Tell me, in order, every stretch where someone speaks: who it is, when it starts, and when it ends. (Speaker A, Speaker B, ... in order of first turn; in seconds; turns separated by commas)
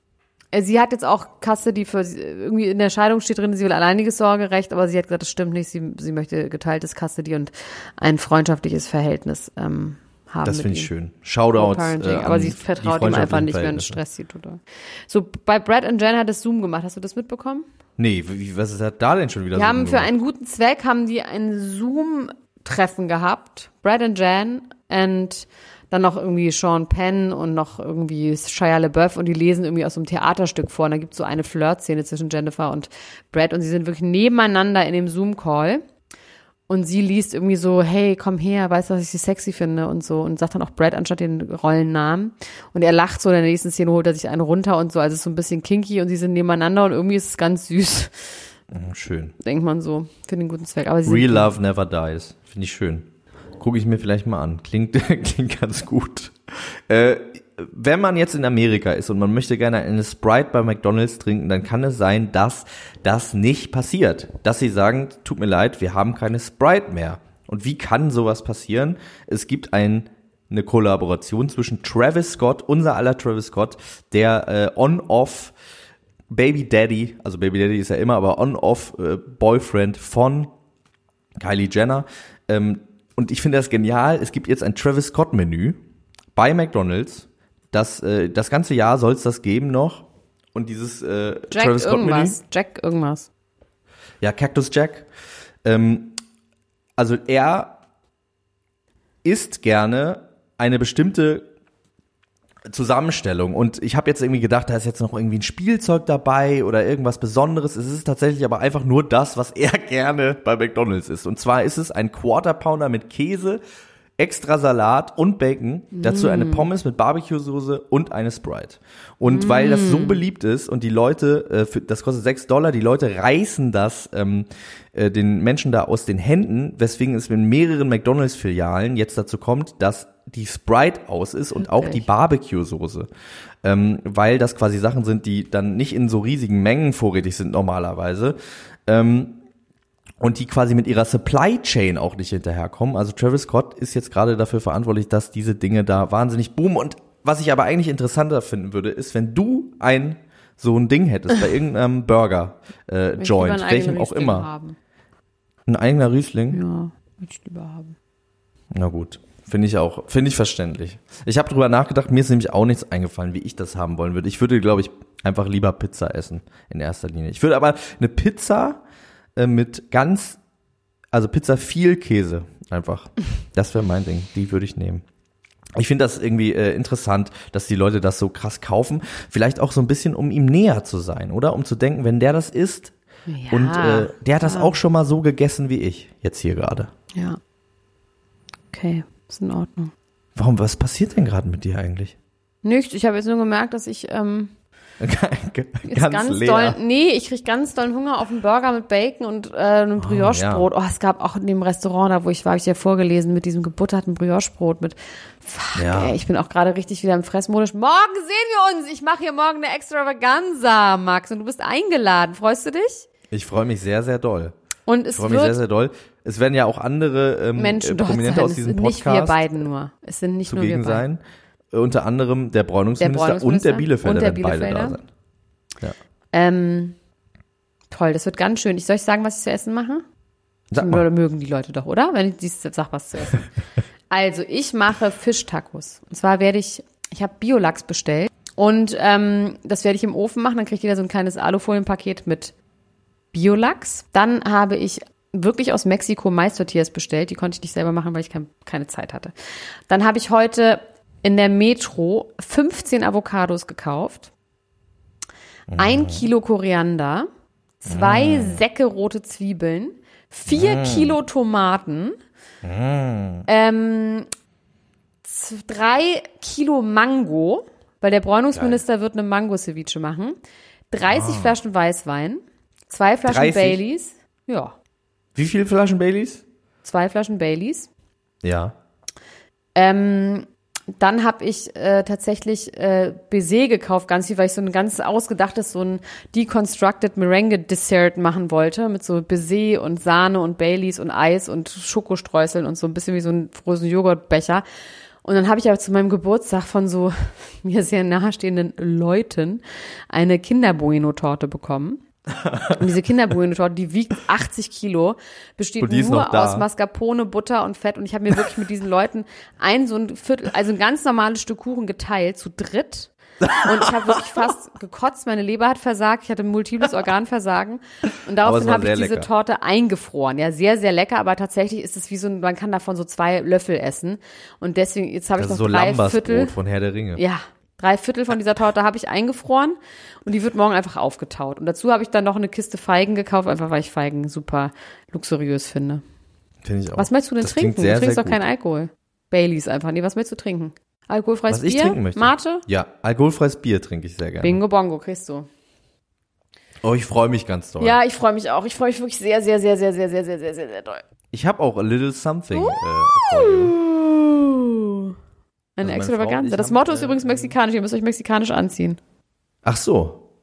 Speaker A: 0.5-10.9, Speaker B: 10.4-14.0, Speaker A: 11.5-17.6, Speaker B: 18.0-20.1, Speaker A: 19.5-35.8, Speaker A: 36.7-48.4, Speaker B: 48.7-49.3, Speaker A: 49.4-51.5, Speaker B: 51.0-75.5, Speaker B: 76.3-80.5, Speaker B: 81.4-85.8, Speaker B: 86.3-92.4, Speaker A: 91.5-93.3, Speaker B: 94.2-95.1, Speaker B: 95.6-96.2, Speaker B: 97.0-97.8, Speaker B: 99.2-101.5, Speaker B: 102.7-113.6, Speaker B: 114.2-133.1, Speaker A: 115.9-116.7, Speaker A: 119.2-120.2, Speaker A: 131.6-132.1, Speaker B: 133.6-138.3, Speaker B: 138.9-139.4, Speaker B: 140.2-154.5, Speaker A: 153.2-154.8, Speaker B: 155.7-156.6, Speaker A: 156.5-157.9, Speaker B: 158.7-168.8, Speaker B: 169.3-170.4, Speaker B: 171.1-175.0, Speaker B: 175.8-182.9, Speaker A: 183.3-184.7, Speaker B: 183.5-186.9, Speaker A: 187.1-187.4, Speaker A: 188.7-189.9, Speaker B: 190.3-192.1, Speaker A: 192.6-194.5, Speaker B: 195.0-196.8, Speaker A: 195.9-213.1, Speaker B: 200.0-200.7, Speaker B: 205.8-206.2, Speaker B: 213.3-214.5, Speaker A: 214.8-215.6, Speaker B: 215.1-219.5, Speaker A: 217.6-221.0, Speaker B: 220.5-221.2, Speaker B: 221.7-225.1, Speaker A: 223.0-225.0, Speaker A: 226.3-226.9, Speaker A: 227.9-230.0, Speaker B: 230.7-231.1, Speaker A: 230.8-233.5, Speaker A: 234.1-242.5, Speaker A: 243.3-249.3, Speaker A: 249.9-254.3, Speaker B: 255.7-256.2, Speaker A: 255.7-257.3, Speaker A: 257.8-262.1, Speaker B: 257.9-258.6, Speaker B: 260.5-261.1, Speaker B: 262.6-263.4, Speaker A: 263.5-264.3, Speaker A: 265.2-270.4, Speaker B: 268.5-268.8, Speaker A: 270.9-274.7, Speaker B: 271.1-271.5, Speaker B: 273.2-273.8, Speaker B: 275.4-276.4, Speaker A: 276.8-277.9, Speaker B: 278.4-278.8, Speaker A: 279.7-294.6, Speaker A: 295.2-302.0, Speaker B: 302.4-302.7, Speaker A: 302.7-326.5, Speaker B: 305.8-306.6, Speaker B: 313.5-313.9, Speaker B: 318.4-319.3, Speaker B: 325.4-327.2, Speaker A: 327.1-336.0, Speaker B: 336.6-338.4, Speaker A: 337.0-342.6, Speaker B: 341.5-344.6, Speaker A: 344.4-345.5, Speaker B: 346.8-348.0, Speaker A: 347.8-351.0, Speaker B: 351.3-353.7, Speaker A: 352.5-355.1, Speaker A: 355.8-359.0, Speaker B: 355.8-357.5, Speaker B: 359.6-360.2